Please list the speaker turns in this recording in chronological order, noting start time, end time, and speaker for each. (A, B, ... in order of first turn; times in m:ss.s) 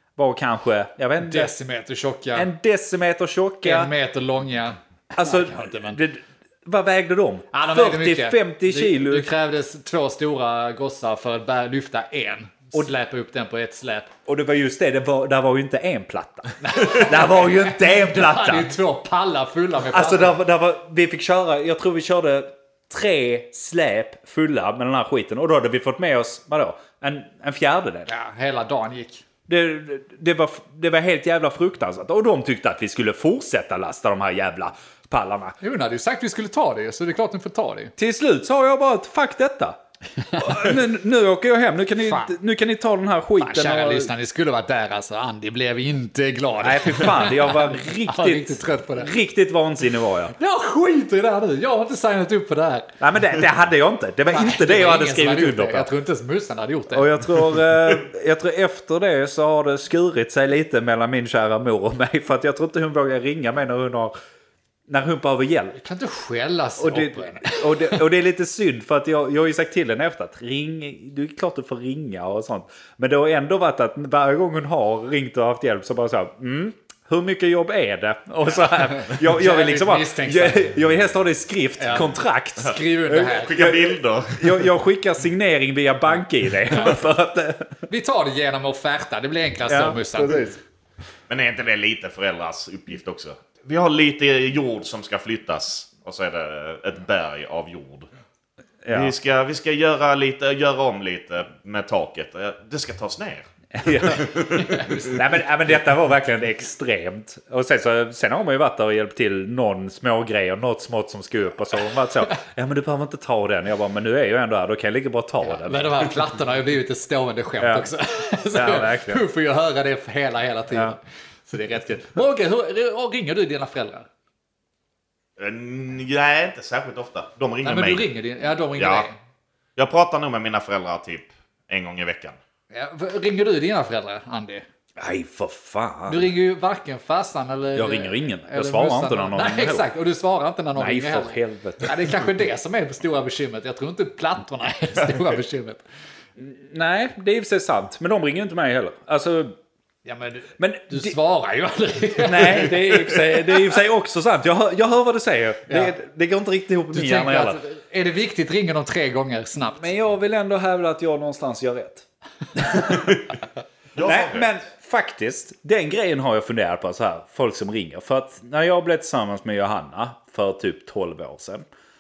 0:00.2-0:01.5 A
0:01.2-0:02.5 B
0:02.3-0:03.9 A
0:03.6-0:06.0 B
0:05.1-0:09.3 A
0:07.5-0:14.1 B
0:14.3-0:18.8 A
0:16.6-0:20.4 B
0:19.9-0:28.1 A
0:28.1-0:29.2 B
0:29.5-0:35.6 A
0:35.6-0:37.9 B
0:38.0-0:39.8 A
0:40.3-0:44.1 A
0:42.0-0:42.3 B
0:43.4-0:49.1 B
0:46.6-0:50.4 A
0:50.4-0:52.9 B
0:53.0-0:55.9 A
0:54.3-0:57.4 B
0:56.9-1:04.1 A
1:04.9-1:05.8 A
1:05.8-1:08.0 B
1:06.8-1:27.8 A
1:18.9-1:20.8 B
1:21.8-1:23.6 B
1:23.2-1:24.7 C
1:27.9-1:30.6 B
1:29.7-1:30.5 A
1:31.3-1:38.1 C
1:38.8-1:39.1 A
1:38.9-1:45.2 C
1:43.7-1:56.2 A
1:44.7-1:45.1 B
1:55.4-2:04.1 B
1:57.6-1:57.9 A
1:58.5-1:59.2 A
2:05.4-2:08.1 C
2:07.6-2:09.2 B
2:08.8-2:09.1 C
2:09.8-2:12.4 C
2:12.7-2:14.6 B
2:15.0-2:16.3 A
2:16.1-2:25.8 B
2:17.8-2:19.9 A
2:20.8-2:22.0 A
2:26.4-2:29.6 A
2:30.0-2:33.6 B
2:30.6-2:31.2 A
2:32.2-2:37.6 A
2:35.7-2:36.0 B
2:36.9-2:39.9 B
2:39.8-2:43.2 A
2:44.0-2:44.5 C
2:44.0-2:51.6 A